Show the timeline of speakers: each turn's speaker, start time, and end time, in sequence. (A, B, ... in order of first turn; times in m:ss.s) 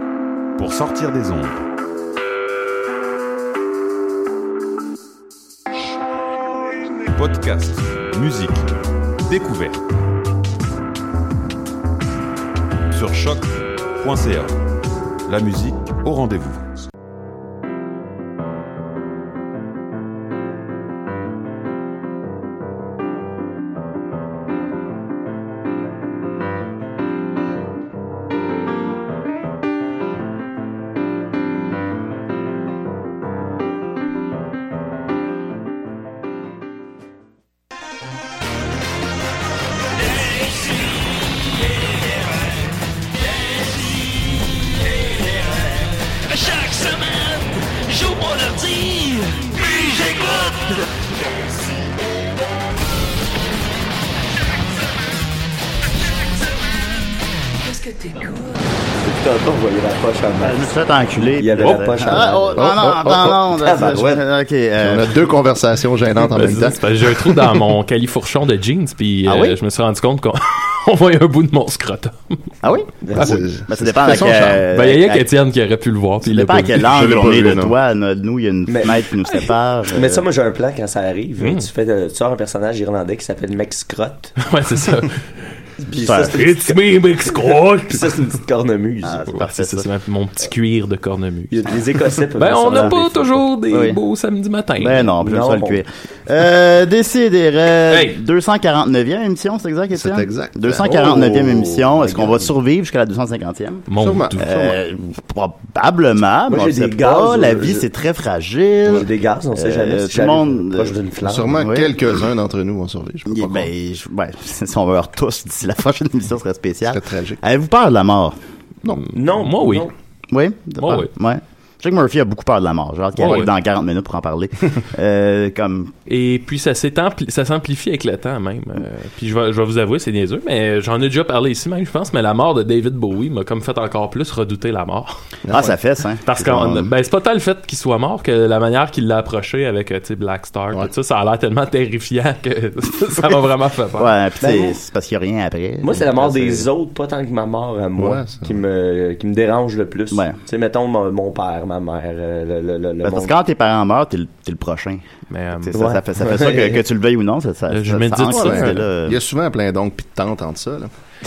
0:00.6-0:01.6 A
0:07.1-0:08.7 A
0:09.2-0:09.8 A
0:12.9-0:14.6 A
0:15.2-0:16.6 A
0:46.4-0:47.3 B
0:47.9-0:50.5 B
0:57.7-0:58.4 B
0:58.9-1:00.6 C
1:00.4-1:05.3 D
1:01.4-1:04.2 C
1:01.6-1:02.2 E
1:02.6-1:03.4 F
1:04.8-1:07.6 F
1:06.2-1:12.5 E
1:09.2-1:09.6 D
1:12.6-1:15.3 D
1:13.0-1:13.4 C
1:13.1-1:14.6 F
1:14.1-1:16.9 E
1:16.2-1:20.2 D
1:16.8-1:17.7 F
1:18.7-1:19.0 C
1:19.9-1:24.3 C
1:24.4-1:25.3 E
1:25.8-1:29.4 C
1:26.0-1:26.3 D
1:26.1-1:28.2 E
1:29.0-1:29.9 D
1:29.3-1:31.7 E
1:31.5-1:33.4 C
1:32.4-1:35.1 E
1:32.7-1:33.0 D
1:33.7-1:34.0 D
1:34.8-1:50.9 D
1:35.2-1:35.8 C
1:37.9-1:38.2 E
1:39.9-1:41.7 F
1:40.8-1:42.5 C
1:43.9-1:44.7 E
1:44.0-1:44.6 F
1:46.5-1:47.9 C
1:48.8-1:51.6 C
1:51.2-1:53.7 F
1:51.5-1:52.0 D
1:53.3-1:58.3 D
1:56.9-1:57.4 F
1:58.8-1:59.1 F
1:58.9-1:59.9 E
1:59.1-1:59.9 C
2:00.3-2:05.9 D
2:00.8-2:01.1 E
2:03.2-2:03.5 E
2:06.1-2:15.1 E
2:15.5-2:15.8 F
2:15.5-2:16.9 D
2:16.2-2:24.1 E
2:24.0-2:26.7 D
2:24.4-2:24.8 C
2:25.8-2:33.3 C
2:28.0-2:28.6 F
2:30.1-2:30.4 D
2:33.0-2:35.0 D
2:35.3-2:35.8 E
2:35.5-2:39.2 D
2:35.7-2:36.8 C
2:37.7-2:38.8 E
2:38.3-2:40.9 F